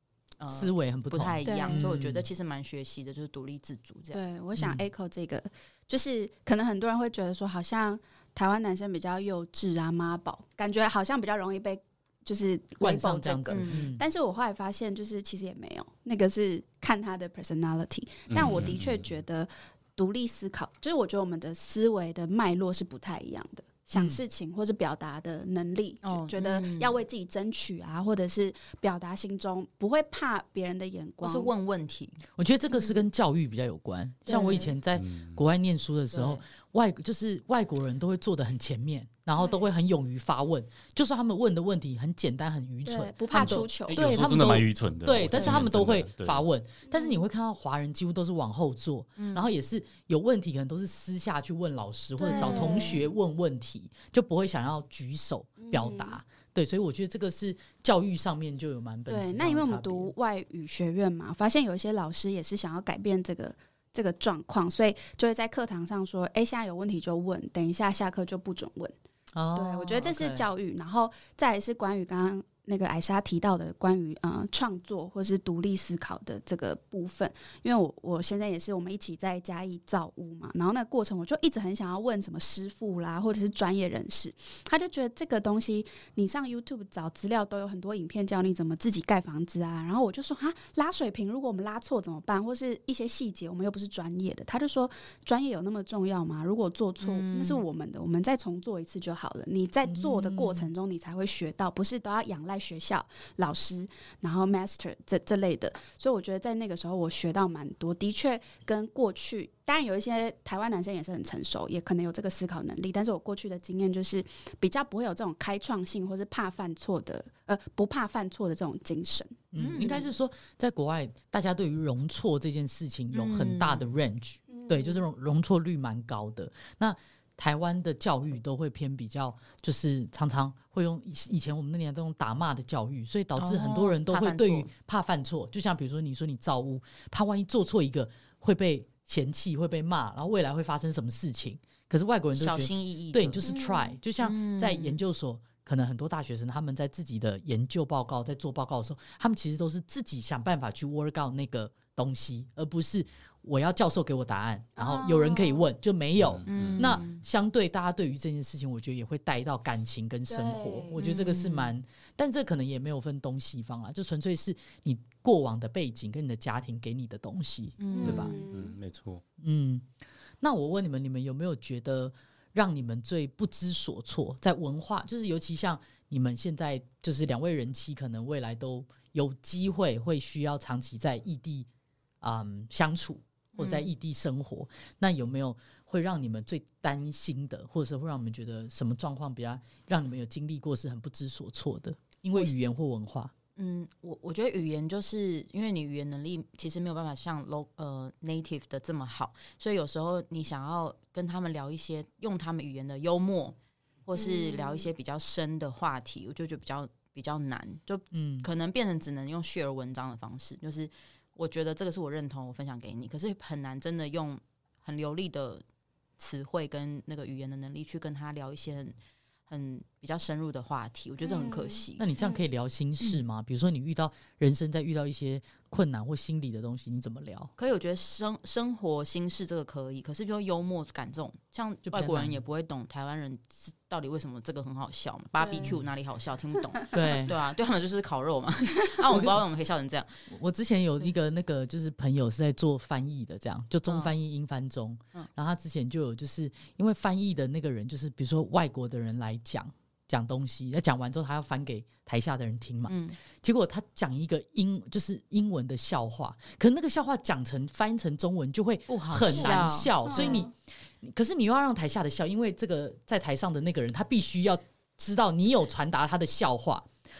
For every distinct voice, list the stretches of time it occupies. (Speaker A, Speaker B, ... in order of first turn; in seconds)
Speaker A: 0.4-4.2, 13.5-13.9, 26.0-27.0, 31.2-32.2, 36.1-36.4, 49.2-49.5, 97.0-97.6, 119.6-120.0, 123.1-123.8, 133.4-134.7, 142.3-143.5, 144.2-145.0, 156.5-157.2, 161.0-161.7, 167.8-168.4, 183.5-183.9, 193.6-215.6, 216.2-218.9, 219.5-222.0, 227.6-240.1, 243.9-244.1, 252.9-253.2, 258.9-260.4
Speaker B: 0.5-2.2, 4.6-4.8, 12.8-14.0, 23.9-24.2, 32.4-60.1, 69.3-70.4, 99.8-100.7, 119.5-168.3, 169.4-169.8, 170.4-181.7, 182.2-193.3, 208.1-208.5, 222.0-227.5, 231.9-232.4, 236.9-237.3, 239.1-239.4, 240.3-266.9
Speaker C: 1.4-1.8, 4.1-31.5, 32.7-33.0, 34.3-34.7, 39.4-39.6, 42.8-44.3, 46.9-47.2, 52.2-53.1, 55.6-56.2, 59.1-68.9, 69.5-120.0, 124.5-125.0, 143.4-143.9, 154.8-155.7, 160.3-160.9, 167.9-168.8, 204.2-204.9, 221.2-222.4, 235.4-235.8, 259.4-260.5
Speaker D: 18.3-19.1, 34.9-35.4, 43.9-46.4, 156.2-157.0, 168.1-169.2